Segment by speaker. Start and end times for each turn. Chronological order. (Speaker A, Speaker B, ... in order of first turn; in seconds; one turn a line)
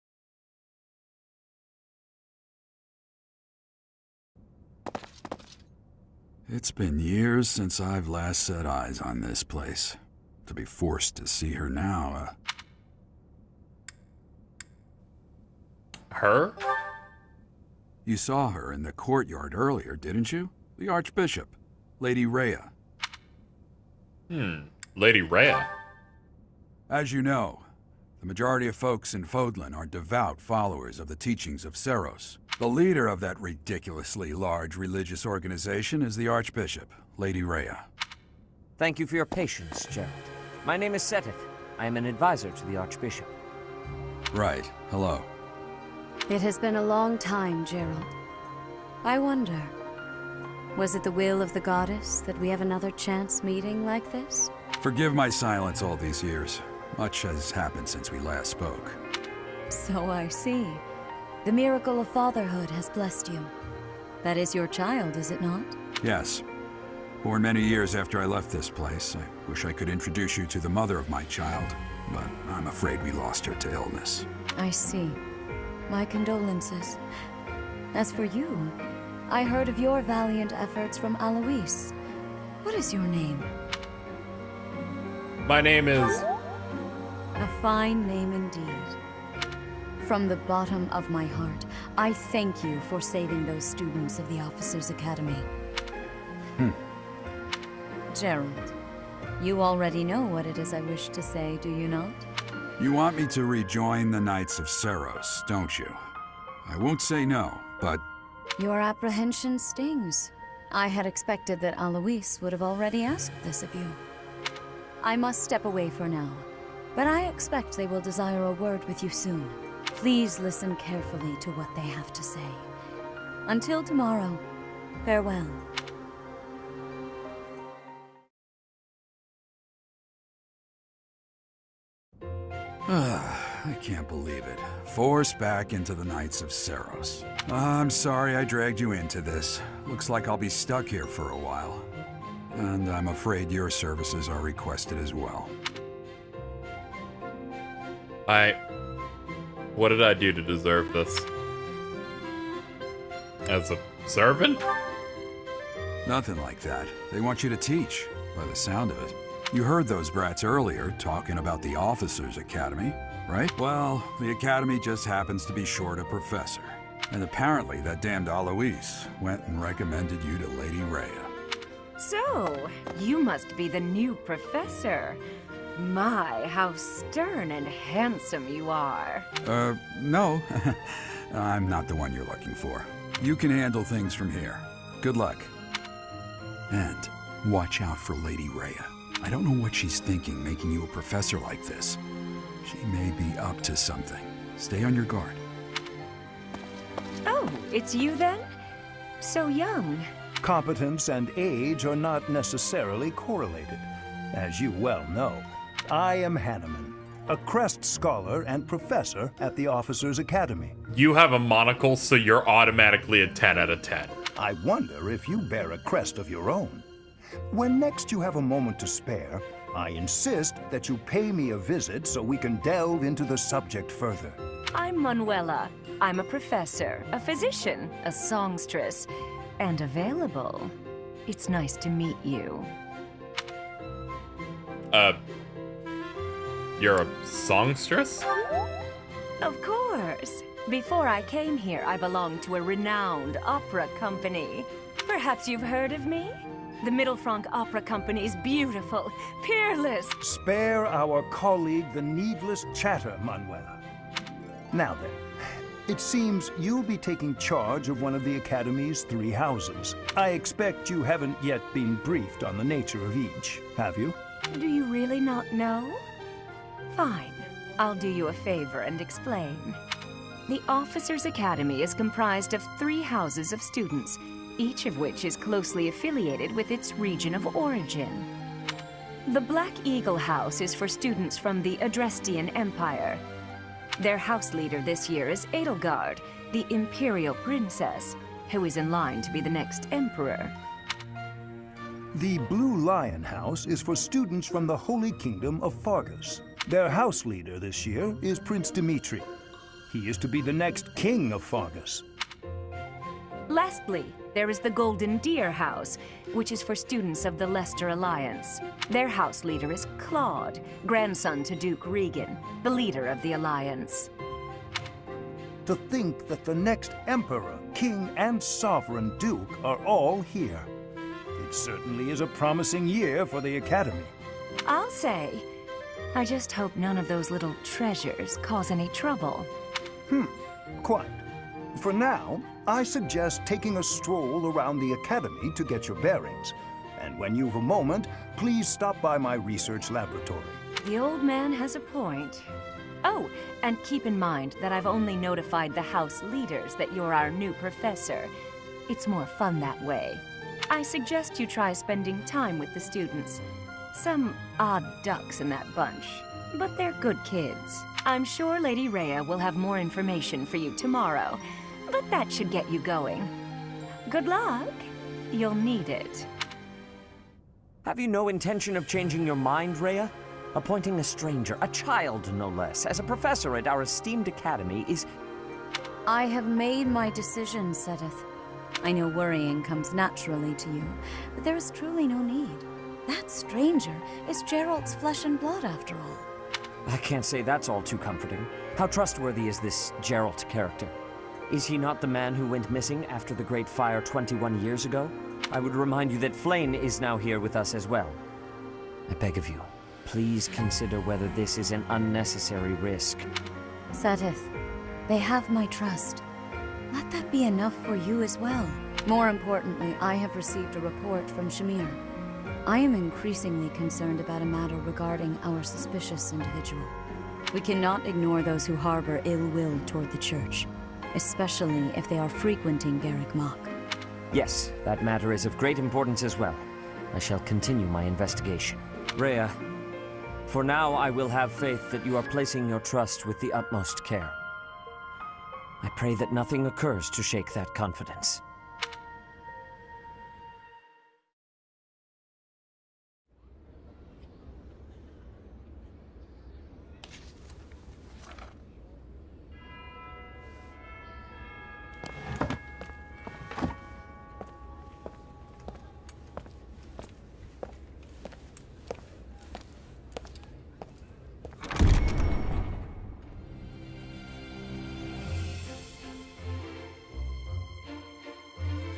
Speaker A: 6.5-12.3
Speaker B: 16.1-16.6
Speaker A: 18.1-22.7
Speaker B: 24.3-25.7
Speaker A: 26.9-27.7
Speaker A: 28.2-37.9
Speaker C: 38.8-43.3
Speaker A: 44.3-45.3
Speaker D: 46.3-48.1
Speaker D: 49.0-49.7
Speaker D: 50.8-54.5
Speaker A: 54.8-59.0
Speaker D: 59.7-60.8
Speaker D: 61.5-63.5
Speaker D: 64.2-65.8
Speaker A: 66.0-66.4
Speaker A: 67.2-74.3
Speaker D: 74.5-75.2
Speaker D: 75.9-77.0
Speaker D: 77.9-78.8
Speaker D: 79.3-81.9
Speaker D: 82.6-83.5
Speaker B: 85.5-86.2
Speaker D: 87.4-89.0
Speaker D: 90.0-95.5
Speaker D: 98.1-98.8
Speaker D: 99.4-102.3
Speaker A: 102.8-106.0
Speaker A: 106.6-108.0
Speaker D: 108.6-114.0
Speaker D: 115.0-122.7
Speaker D: 123.5-124.4
Speaker D: 125.0-125.6
Speaker A: 132.8-141.9
Speaker A: 142.5-145.5
Speaker B: 148.3-148.6
Speaker B: 149.8-151.3
Speaker B: 153.5-154.6
Speaker A: 156.0-171.3
Speaker E: 172.0-175.2
Speaker E: 175.8-179.3
Speaker A: 179.4-185.5
Speaker A: 186.7-192.0
Speaker A: 192.6-195.4
Speaker E: 197.3-198.5
Speaker E: 199.2-200.1
Speaker F: 200.4-210.8
Speaker B: 210.9-214.1
Speaker F: 214.3-216.8
Speaker F: 217.5-224.4
Speaker E: 224.7-230.7
Speaker E: 231.3-232.7
Speaker B: 234.9-235.2
Speaker B: 236.8-238.3
Speaker E: 239.4-250.2
Speaker F: 250.2-253.8
Speaker F: 254.7-255.3
Speaker F: 255.8-264.2
Speaker E: 264.5-266.0
Speaker E: 266.9-269.8
Speaker E: 270.5-278.3
Speaker E: 279.2-283.2
Speaker E: 284.0-290.5
Speaker F: 292.1-299.3
Speaker F: 299.9-302.0
Speaker E: 303.5-314.1
Speaker F: 315.7-320.7
Speaker F: 321.4-324.1
Speaker E: 324.7-325.4
Speaker E: 326.1-329.5
Speaker F: 330.1-331.2
Speaker F: 331.8-340.6
Speaker E: 340.8-342.4
Speaker E: 343.0-348.3
Speaker E: 348.9-353.4
Speaker E: 353.9-363.3
Speaker E: 364.1-366.3
Speaker C: 367.8-375.1
Speaker D: 376.1-378.2
Speaker D: 378.8-386.3
Speaker C: 386.9-390.9
Speaker C: 391.5-398.2
Speaker C: 399.1-403.2
Speaker D: 403.9-404.5
Speaker D: 405.1-406.2
Speaker D: 406.9-412.0
Speaker D: 412.6-416.9
Speaker D: 417.5-423.7
Speaker C: 424.3-429.6
Speaker C: 430.5-434.4
Speaker C: 435.8-438.4